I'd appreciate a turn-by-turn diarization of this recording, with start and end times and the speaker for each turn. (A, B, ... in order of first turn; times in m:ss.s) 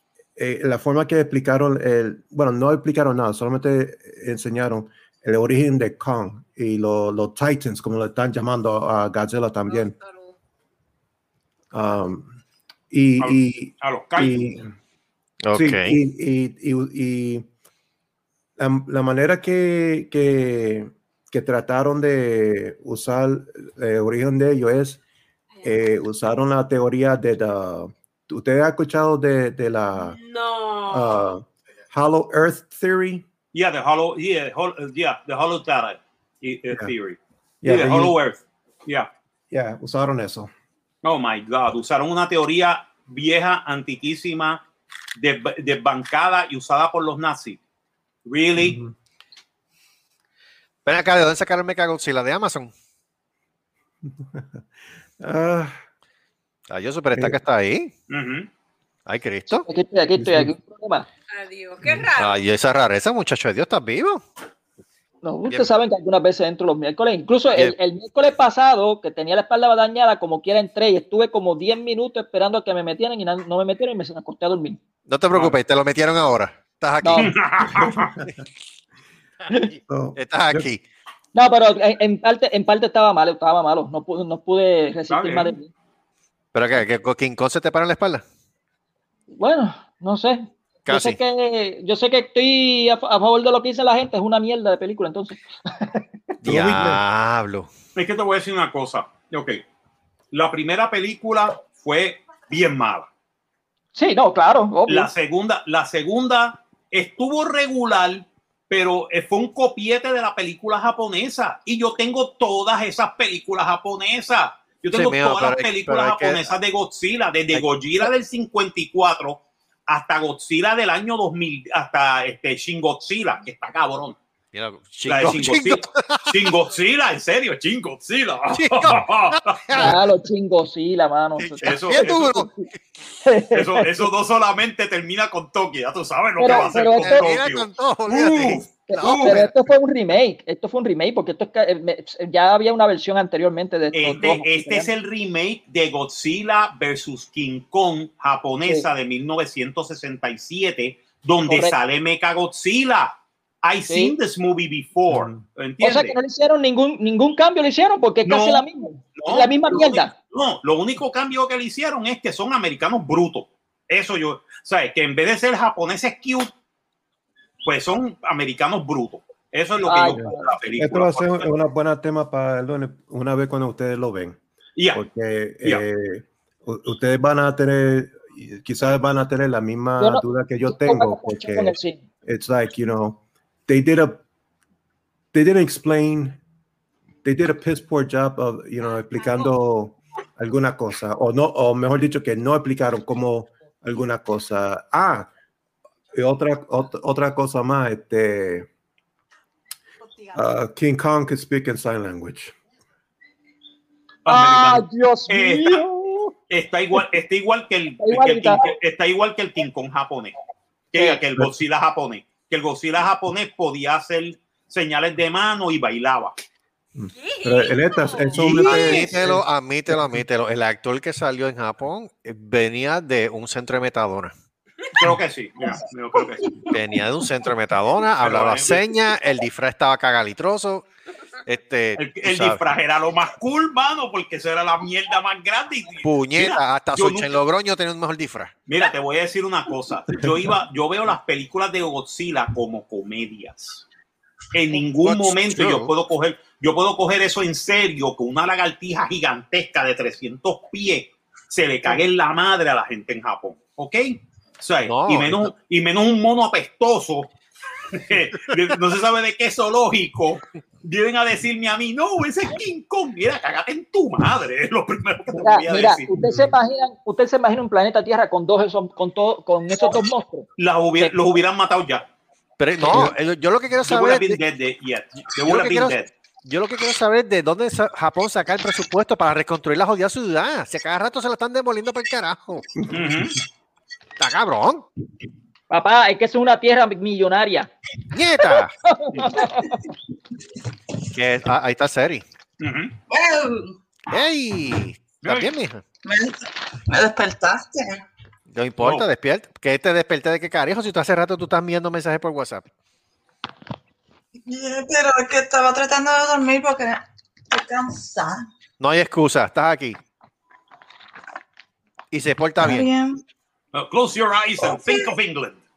0:00.4-0:10.0 A
0:09.7-0:10.4 B
0:11.7-0:12.3 A
0:12.9-0:14.7 A
0:13.2-0:14.5 C
0:15.4-0:16.0 D
0:15.5-0:17.4 A
0:18.6-0:25.0 A
0:25.5-0:25.8 B
0:25.6-0:30.2 A
0:29.9-0:31.3 B
0:30.9-0:33.2 A
0:33.5-0:39.1 C
0:37.6-0:38.2 A
0:39.5-0:40.5 A
0:41.0-0:44.6 C
0:45.2-0:47.6 C
0:48.2-0:48.8 C
0:48.6-0:48.9 A
0:50.8-0:52.7 D
0:55.2-0:55.8 A
0:56.7-0:57.9 D
0:57.1-0:57.4 A
0:58.1-0:58.5 C
0:59.0-0:59.6 D
0:59.5-1:01.1 E
1:00.2-1:00.5 A
1:01.3-1:02.4 B
1:01.8-1:02.1 A
1:02.2-1:04.2 D
1:05.2-1:14.8 E
1:15.1-1:17.4 D
1:17.0-1:17.3 E
1:17.2-1:18.1 C
1:17.6-1:18.3 A
1:19.5-1:20.8 D
1:19.9-1:20.7 A
1:21.3-1:25.7 E
1:25.1-1:25.5 C
1:26.5-1:28.2 D
1:29.4-1:35.9 E
1:30.8-1:31.2 D
1:36.4-1:37.7 D
1:36.4-1:37.0 A
1:38.0-1:39.6 C
1:40.3-1:43.1 C
1:44.0-1:45.1 E
1:44.9-2:04.2 C
1:54.9-1:56.5 D
2:04.5-2:06.4 D
2:05.0-2:09.9 C
2:08.5-2:10.0 D
2:09.7-2:12.7 E
2:11.4-2:13.0 D
2:11.6-2:12.4 C
2:13.2-2:14.1 E
2:13.5-2:19.4 C
2:16.4-2:17.4 E
2:16.4-2:19.6 D
2:18.9-2:24.9 E
2:23.9-2:36.2 C
2:31.5-2:31.7 E
2:33.9-2:34.1 E
2:35.1-2:35.4 A
2:35.8-2:40.1 E
2:38.2-2:38.6 C
2:39.2-2:46.5 C
2:47.6-2:51.5 C
2:49.8-2:50.5 E
2:50.2-2:54.4 A
2:54.8-2:55.0 C
2:54.9-3:04.2 A
3:00.0-3:02.0 E
3:05.3-3:06.4 A
3:07.2-3:15.3 A
3:16.1-3:18.7 A
3:20.3-3:22.5 A
3:24.2-3:25.8 C
3:24.3-3:26.3 E
3:26.5-3:30.3 C
3:28.0-3:28.7 E
3:30.9-3:36.3 C
3:36.9-3:40.2 A
3:37.1-3:38.8 B
3:38.3-3:44.3 D
3:45.0-3:46.6 C
3:46.7-3:50.8 D
3:48.2-3:49.0 C
3:51.4-3:52.6 D
3:52.0-3:57.3 C
3:56.0-3:58.5 D
3:58.7-4:03.8 C
4:04.5-4:17.3 C
4:05.0-4:05.9 D
4:14.9-4:15.5 D
4:17.9-4:26.1 C
4:25.3-4:30.5 E
4:26.2-4:26.5 A
4:30.6-4:32.1 C
4:32.6-4:34.4 D
4:32.8-4:33.1 A
4:33.8-4:36.1 C
4:35.4-4:42.6 D
4:42.8-4:43.1 A
4:42.9-4:43.4 C
4:44.2-4:44.8 D
4:45.7-4:47.7 E
4:48.1-4:48.7 D
4:48.4-4:49.9 E
4:51.1-4:52.2 D
4:52.6-4:52.9 C
4:53.1-4:53.8 F
4:54.1-4:55.8 D
4:55.2-4:55.5 C
4:56.0-4:58.0 F
4:58.5-5:02.6 D
4:58.8-4:59.1 C
5:04.4-5:08.5 F
5:08.8-5:10.0 D
5:12.1-5:12.9 D
5:12.6-5:13.2 F
5:13.7-5:15.6 C
5:14.6-5:15.1 F